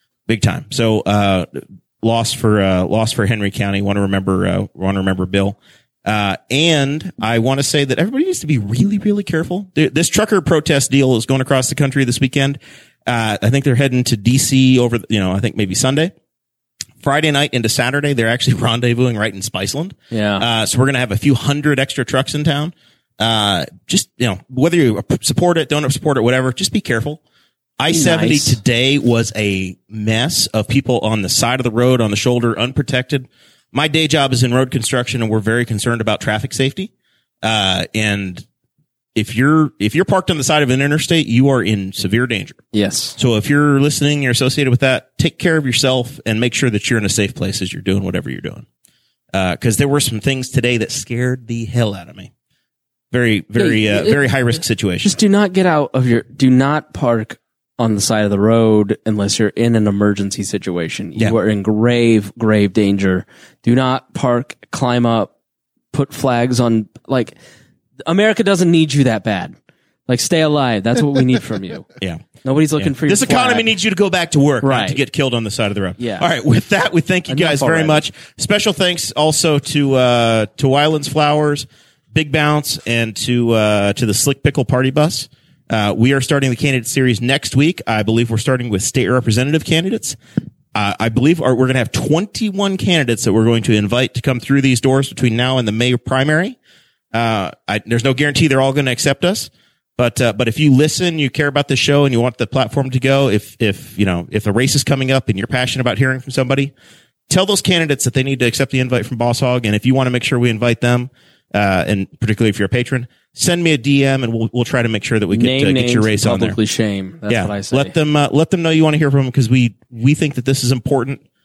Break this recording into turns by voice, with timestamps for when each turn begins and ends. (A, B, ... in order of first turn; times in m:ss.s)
0:00.3-0:16.1 A
0:17.0-0:27.2 A
0:20.1-0:20.4 B
0:27.8-0:36.9 A
0:27.9-0:28.6 B
0:37.4-0:38.4 A
0:39.1-0:42.6 A
0:42.7-0:43.2 B
0:43.2-0:48.6 A
0:49.3-0:52.3 A
0:53.1-0:55.2 A
0:53.6-0:54.2 B
0:55.0-1:05.3 B
1:05.9-1:07.4 B
1:08.0-1:09.6 B
1:10.1-1:11.9 B
1:12.0-1:30.2 A
1:12.4-1:13.7 B
1:14.6-1:15.0 B
1:16.0-1:16.3 B
1:17.3-1:18.0 B
1:30.7-1:36.6 A
1:37.1-1:46.7 A
1:47.3-1:56.6 A
1:55.3-1:57.9 B
1:57.3-2:01.2 A